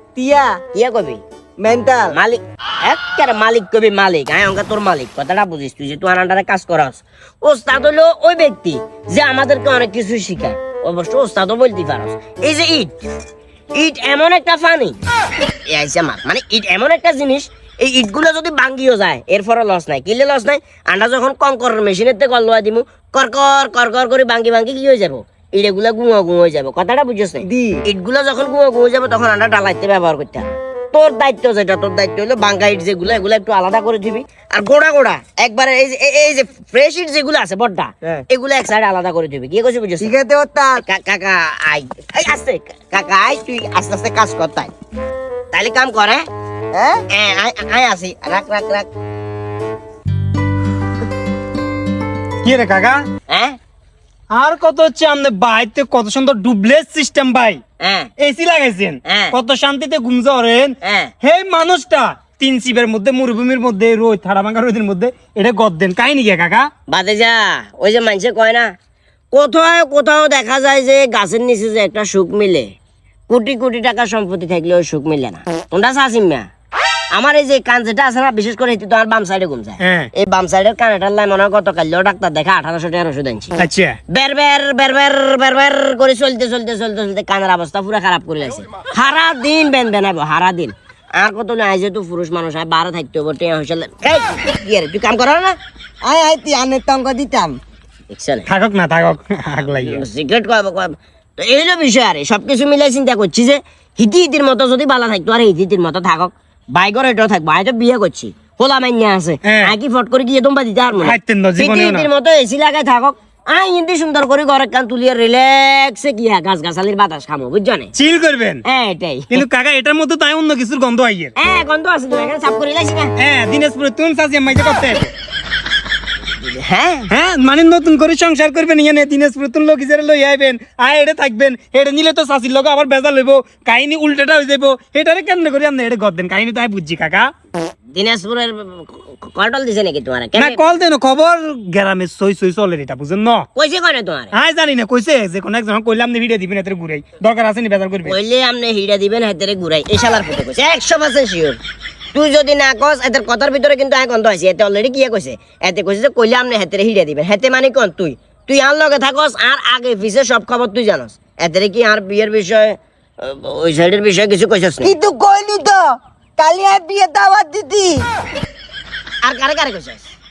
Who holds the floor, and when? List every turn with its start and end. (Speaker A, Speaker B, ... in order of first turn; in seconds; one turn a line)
Speaker A: 0.1-0.6
Speaker B: 0.7-1.2
Speaker A: 1.6-2.2
Speaker B: 2.1-13.0
Speaker B: 13.8-15.0
Speaker B: 15.7-40.1
Speaker A: 27.4-27.8
Speaker A: 40.0-40.8
Speaker B: 40.8-44.7
Speaker B: 45.5-46.2
Speaker A: 46.7-47.0
Speaker B: 47.1-48.9
Speaker C: 52.4-53.0
Speaker B: 53.3-53.6
Speaker C: 54.3-57.6
Speaker B: 57.8-58.1
Speaker C: 58.2-66.7
Speaker B: 59.0-59.4
Speaker B: 60.8-61.1
Speaker B: 66.9-68.7
Speaker B: 69.3-72.7
Speaker B: 73.3-76.5
Speaker B: 77.1-83.6
Speaker C: 79.8-80.1
Speaker C: 83.6-84.0
Speaker B: 84.1-95.6
Speaker A: 96.0-97.6
Speaker B: 98.1-98.5
Speaker C: 98.5-100.1
Speaker B: 99.7-117.9
Speaker C: 109.4-109.7
Speaker C: 111.0-112.1
Speaker C: 118.0-118.6
Speaker B: 118.6-119.4
Speaker C: 119.3-121.3
Speaker B: 121.4-123.1
Speaker C: 123.2-125.1
Speaker B: 126.4-127.1
Speaker C: 127.1-137.3
Speaker B: 137.9-140.7
Speaker C: 140.4-143.5
Speaker B: 143.6-144.3
Speaker C: 144.3-148.2
Speaker B: 148.1-151.6
Speaker B: 152.1-164.9
Speaker A: 164.8-165.8
Speaker A: 166.4-168.0
Speaker B: 169.2-170.1